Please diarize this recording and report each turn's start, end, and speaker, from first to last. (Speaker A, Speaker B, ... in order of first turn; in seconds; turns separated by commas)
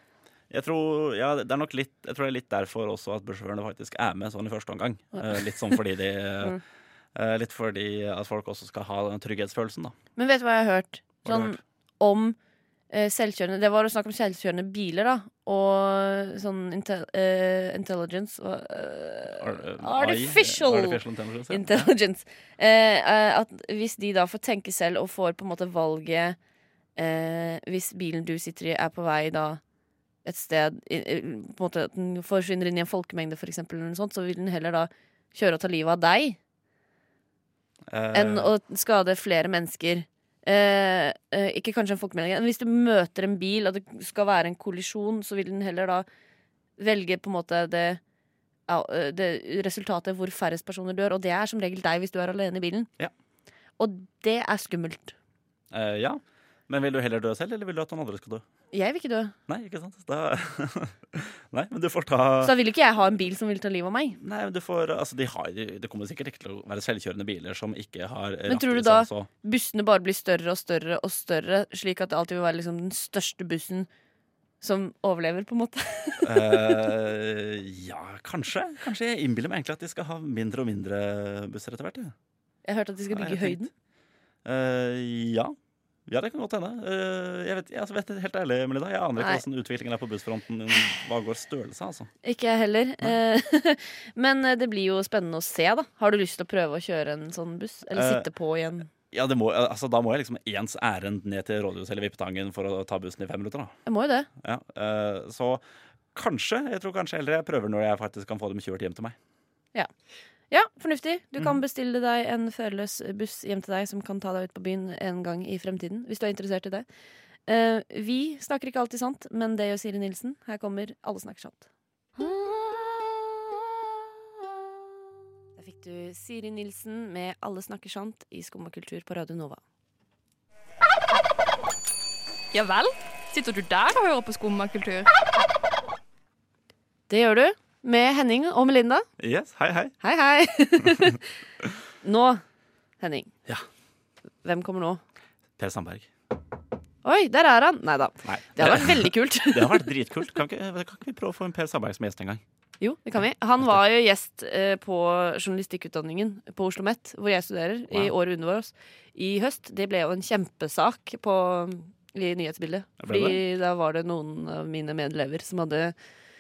Speaker A: 0.5-6.6, Speaker B: 5.1-5.8, Speaker A: 7.2-9.9, Speaker B: 10.2-12.4, Speaker A: 11.2-11.6, Speaker B: 12.9-26.4, Speaker A: 19.3-21.9, Speaker B: 27.0-29.6, Speaker B: 30.2-36.4, Speaker A: 37.9-38.5, Speaker B: 38.1-46.1, Speaker B: 46.8-48.0, Speaker B: 48.7-52.9, Speaker B: 53.8-55.1, Speaker A: 55.7-58.4, Speaker B: 58.7-59.4, Speaker A: 59.5-62.5, Speaker B: 62.4-64.2, Speaker A: 64.2-69.3, Speaker B: 68.5-73.9, Speaker B: 74.6-76.8, Speaker A: 76.2-82.1, Speaker B: 82.7-83.7, Speaker A: 83.1-83.7, Speaker A: 84.5-85.5, Speaker A: 86.1-92.1, Speaker B: 89.2-89.4, Speaker B: 92.2-98.9, Speaker A: 97.9-98.3, Speaker A: 99.0-103.7, Speaker B: 103.9-104.3, Speaker A: 104.4-105.6, Speaker A: 106.1-109.2, Speaker B: 110.5-116.9, Speaker B: 117.5-121.7, Speaker B: 125.6-129.6, Speaker C: 132.5-135.1, Speaker B: 137.1-139.1, Speaker A: 139.2-139.9, Speaker B: 140.0-141.2, Speaker B: 142.0-142.4, Speaker B: 143.0-143.3, Speaker B: 144.4-145.0, Speaker A: 145.6-146.1, Speaker B: 147.0-149.9, Speaker A: 148.2-152.4, Speaker B: 152.8-165.9, Speaker A: 163.0-163.4